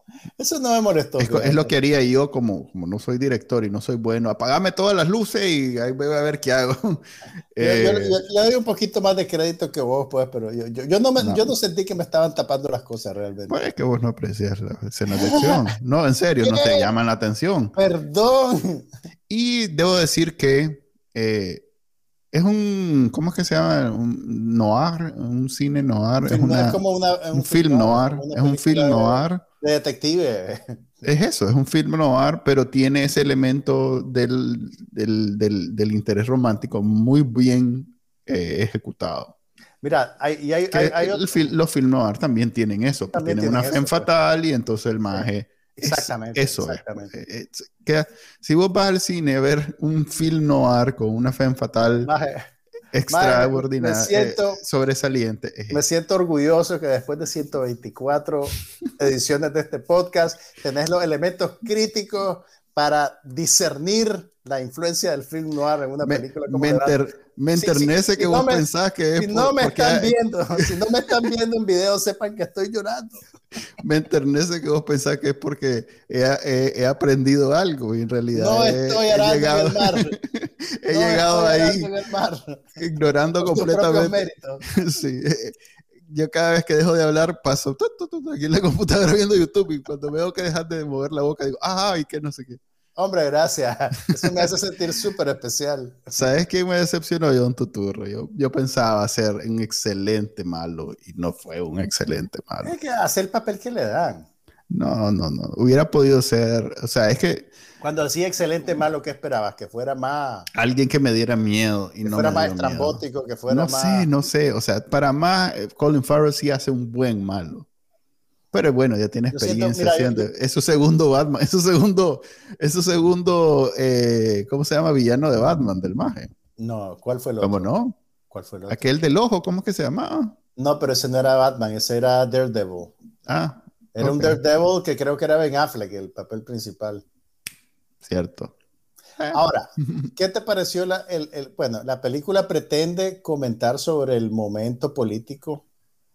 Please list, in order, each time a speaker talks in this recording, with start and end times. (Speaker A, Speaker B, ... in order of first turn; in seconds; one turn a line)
Speaker A: 0.4-1.8
Speaker B: 1.2-7.0
Speaker B: 7.6-8.2
Speaker A: 7.6-13.6
Speaker B: 11.2-11.5
Speaker B: 13.5-17.7
Speaker A: 15.2-15.6
Speaker A: 16.4-16.9
Speaker A: 17.8-18.9
Speaker B: 19.3-21.6
Speaker B: 22.3-26.8
Speaker A: 26.2-30.8
Speaker B: 27.3-29.4
Speaker B: 31.0-39.3
Speaker A: 39.8-41.5
Speaker B: 40.7-52.1
Speaker A: 43.1-44.1
Speaker A: 45.1-47.1
Speaker A: 52.0-52.5
Speaker B: 52.9-55.8
Speaker A: 53.1-54.6
Speaker A: 55.7-67.0
Speaker B: 66.0-70.6
Speaker A: 67.6-68.7
Speaker A: 69.2-73.2
Speaker B: 73.8-81.9
Speaker A: 78.3-80.2
Speaker A: 80.9-82.8
Speaker B: 82.8-92.6
Speaker A: 83.4-84.7
Speaker A: 93.0-96.3
Speaker B: 94.2-94.5
Speaker B: 96.2-102.7
Speaker A: 102.6-104.3
Speaker B: 104.7-107.5
Speaker A: 107.8-110.5
Speaker B: 110.5-117.7
Speaker A: 112.0-114.1
Speaker B: 118.5-126.3
Speaker A: 119.3-120.3
Speaker A: 126.6-127.7
Speaker B: 127.4-128.0
Speaker A: 128.3-128.8
Speaker B: 128.7-130.4
Speaker A: 130.6-132.9
Speaker B: 133.3-134.4
Speaker A: 133.9-137.0
Speaker B: 138.0-138.5
Speaker B: 139.2-140.1
Speaker A: 139.3-145.7